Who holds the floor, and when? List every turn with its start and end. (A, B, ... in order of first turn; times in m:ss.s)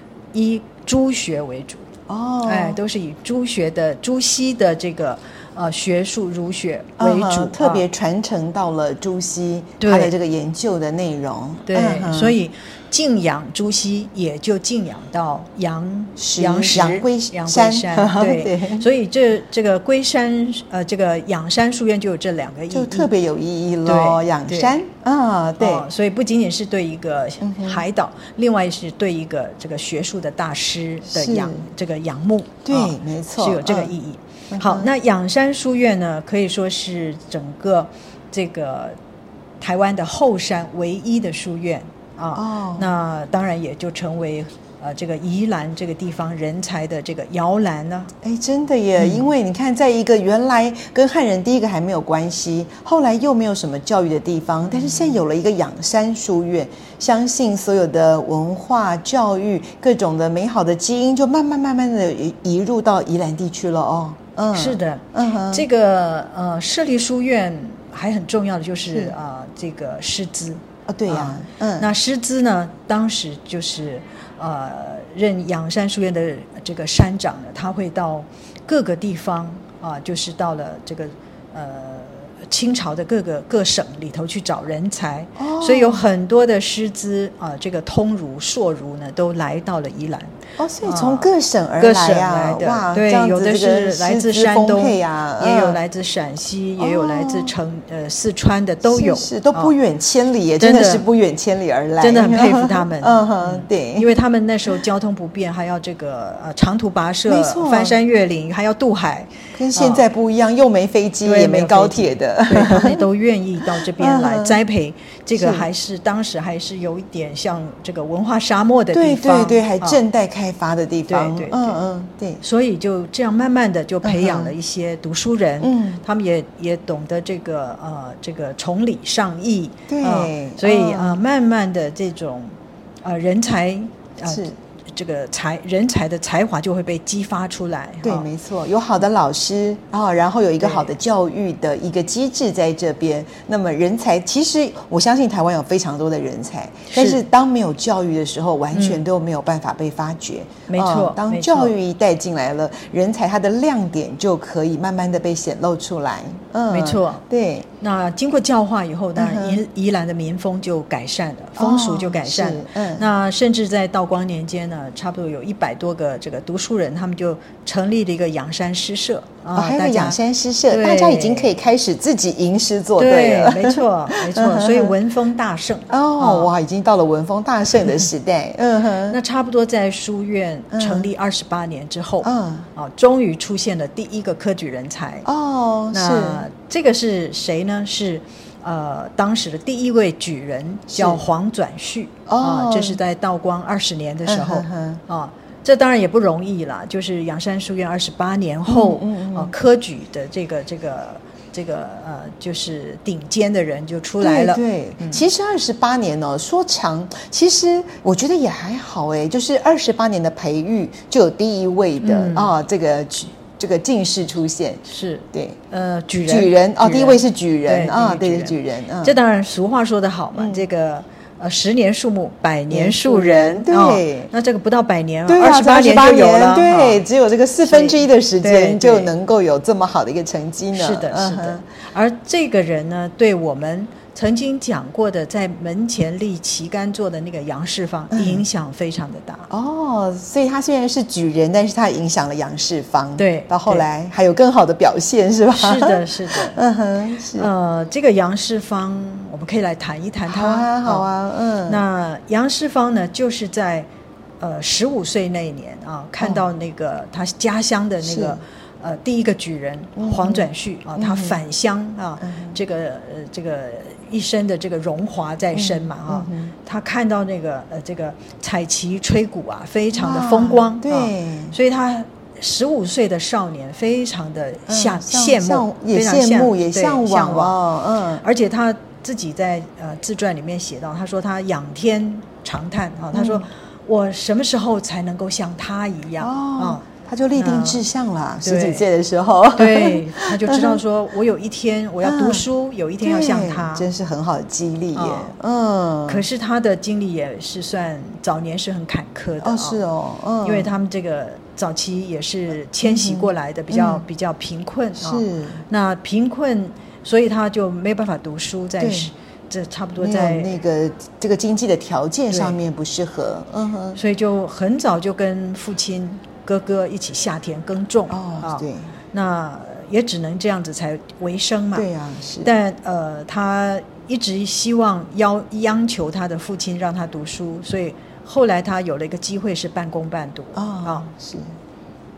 0:00.3-0:01.9 A
0:02.1-0:02.8 B
0:02.4-0:07.8 A
0:07.0-0:12.4 B
0:09.8-0:10.1 A
0:11.7-0:23.1 A
0:16.2-0:18.9 B
0:22.7-0:25.9 B
0:23.8-0:24.8 A
0:25.6-0:39.0 A
0:27.4-0:27.8 B
0:31.1-0:31.7 B
0:32.6-0:33.9 B
0:34.5-0:34.9 B
0:39.6-0:48.1 A
0:42.4-0:42.9 B
0:48.2-1:05.7 B
0:49.0-0:49.3 A
0:54.7-0:55.2 A
1:04.5-1:39.8 A
1:08.9-1:09.2 B
1:10.9-1:11.9 B
1:25.4-1:26.0 B
1:30.6-1:35.8 B
1:36.8-1:37.5 B
1:38.8-1:44.1 B
1:40.6-1:41.1 A
1:42.0-1:50.1 A
1:47.3-1:48.0 B
1:49.6-1:53.0 B
1:51.2-2:00.0 A
1:53.8-1:54.6 B
1:55.4-1:55.7 B
1:58.9-2:02.4 B
2:01.1-2:01.8 A
2:02.4-2:18.3 A
2:04.0-2:04.6 B
2:05.6-2:06.0 B
2:09.9-2:11.2 B
2:14.2-2:14.6 B
2:18.0-2:37.7 B
2:20.6-2:20.9 A
2:26.9-2:27.2 A
2:28.7-2:29.0 A
2:30.7-2:31.7 A
2:36.7-2:37.2 A
2:37.8-2:51.6 A
2:39.2-2:39.6 B
2:41.6-2:43.1 B
2:49.5-2:54.9 B
2:53.0-2:56.5 A
2:55.9-2:59.2 B
2:59.1-3:05.3 A
3:00.7-3:01.1 B
3:02.2-3:02.7 B
3:05.2-3:06.4 B
3:05.9-3:25.2 A
3:10.9-3:11.2 B
3:12.3-3:13.0 B
3:14.2-3:15.0 B
3:18.7-3:19.5 B
3:24.2-3:35.6 B
3:32.0-3:32.5 A
3:34.9-3:47.0 A
3:36.2-3:39.2 B
3:40.4-3:40.6 B
3:42.7-3:44.3 B
3:45.3-3:51.6 B
3:47.6-3:49.1 A
3:50.7-3:59.5 A
3:58.1-3:58.4 B
3:59.5-4:07.5 B
4:03.2-4:03.9 A
4:05.6-4:06.6 A
4:07.4-4:11.1 A
4:10.2-4:11.8 B
4:11.7-4:13.9 A
4:14.4-4:37.6 A
4:18.0-4:18.4 B
4:20.0-4:21.4 B
4:22.2-4:22.6 B
4:25.5-4:26.5 B
4:29.9-4:31.6 B
4:34.7-4:38.2 B
4:38.2-4:47.8 A
4:43.1-4:43.5 B
4:46.2-4:50.8 B
4:48.4-4:48.9 A
4:49.6-4:53.9 A
4:52.0-4:52.4 B
4:53.0-4:56.2 B
4:54.9-4:55.3 A
4:56.1-4:59.8 A
4:59.4-5:00.7 B
5:00.4-5:10.6 A
5:02.8-5:04.0 B
5:05.0-5:05.6 B
5:08.8-5:09.1 B
5:10.0-5:14.0 B
5:12.3-5:12.6 A
5:14.0-5:21.9 A
5:18.1-5:18.9 B
5:21.7-5:22.5 B
5:22.4-5:31.1 A
5:30.6-5:31.6 B